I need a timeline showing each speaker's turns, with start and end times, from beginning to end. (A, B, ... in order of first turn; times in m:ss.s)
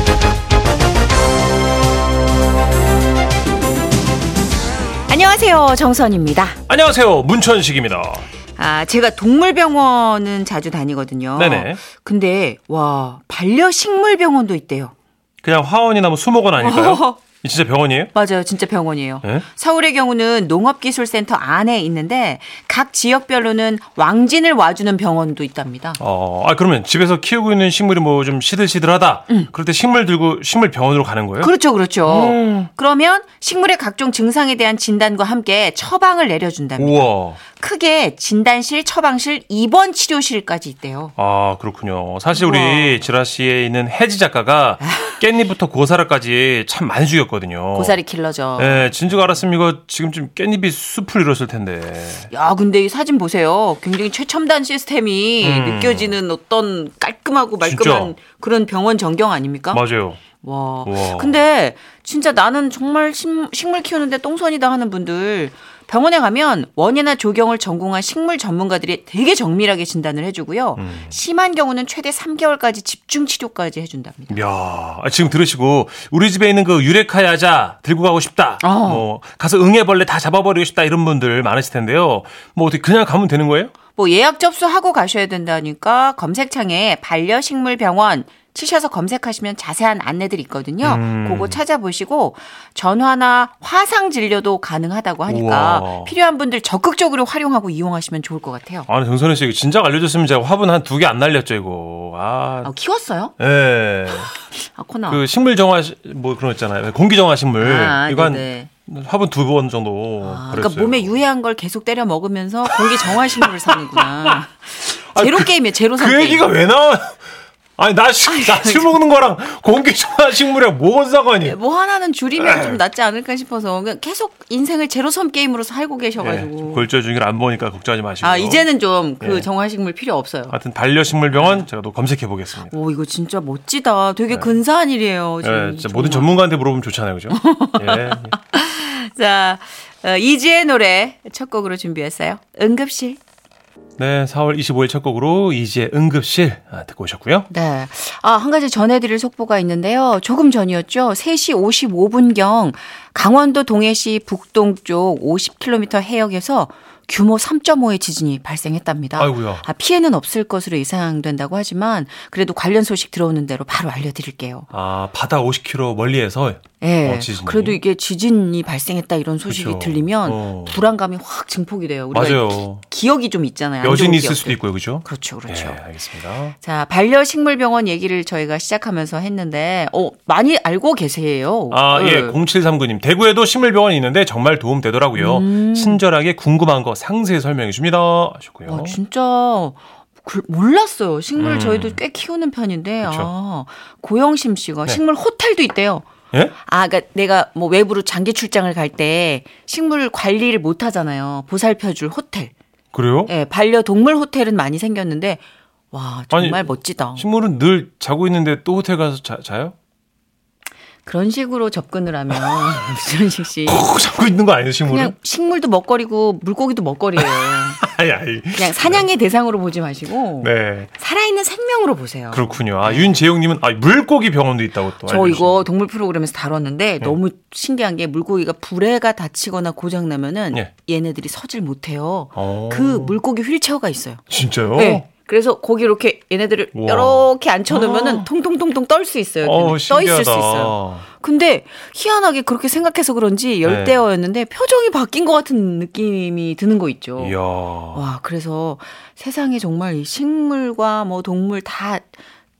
0:05.1-0:06.6 A
0:06.7-0:08.3 B
0:08.6-0:14.9 A
0:11.3-0:11.8 B
0:15.4-0:18.1 B
0:16.6-0:17.2 A
0:18.1-0:26.0 A
0:26.0-0:31.5 B
0:31.4-0:41.1 A
0:32.0-0:32.7 B
0:36.8-0:37.4 B
0:41.2-0:48.0 B
0:42.3-0:43.0 A
0:47.7-0:48.9 A
0:48.6-0:52.3 B
0:52.3-0:59.8 A
0:55.4-0:56.2 B
0:57.6-0:58.1 B
0:59.7-1:00.2 B
1:00.4-1:14.4 A
1:00.8-1:01.4 B
1:10.8-1:11.1 B
1:14.3-1:23.7 B
1:18.6-1:19.0 A
1:24.0-1:38.9 A
1:30.8-1:31.6 B
1:35.3-1:36.1 B
1:38.9-1:42.7 B
1:42.6-1:43.3 A
1:43.4-1:44.3 B
1:44.6-1:45.2 A
1:45.1-1:51.1 B
1:47.6-1:48.7 A
1:50.2-1:56.4 A
1:52.7-1:54.3 B
1:55.1-1:57.2 B
1:57.8-2:01.6 B
1:58.2-1:59.0 A
2:01.4-2:06.9 A
2:02.4-2:02.8 B
2:06.2-2:08.7 B
2:08.2-2:10.6 A
2:09.2-2:09.5 B
2:10.5-2:12.7 B
2:11.3-2:11.6 A
2:12.7-2:16.3 A
2:15.4-2:18.3 B
2:17.3-2:23.2 A
2:24.0-2:27.5 B
2:27.5-2:44.7 A
2:39.2-2:39.6 B
2:44.7-2:47.8 B
2:46.8-2:55.8 A
2:49.5-2:50.8 B
2:52.1-2:52.8 B
2:53.8-2:56.5 B
2:56.6-3:02.4 A
3:01.7-3:09.0 B
3:05.2-3:06.0 A
3:08.7-3:16.1 A
3:11.4-3:12.0 B
3:13.0-3:13.3 B
3:16.6-3:22.5 A
3:22.9-3:23.3 B
3:23.3-3:27.2 A
3:26.3-3:29.7 B
3:31.0-3:33.9 A
3:32.3-3:32.8 B
3:33.6-3:35.1 B
3:34.8-3:37.8 A
3:37.2-3:39.0 B
3:38.6-3:43.2 A
3:40.4-3:40.9 B
3:42.3-3:45.6 B
3:45.0-3:54.2 A
3:52.4-3:53.2 B
3:54.3-3:55.0 B
3:54.7-4:07.3 A
3:56.7-3:58.3 B
3:59.4-4:01.0 B
4:03.6-4:04.0 B
4:07.2-4:08.0 B
4:07.9-4:12.1 A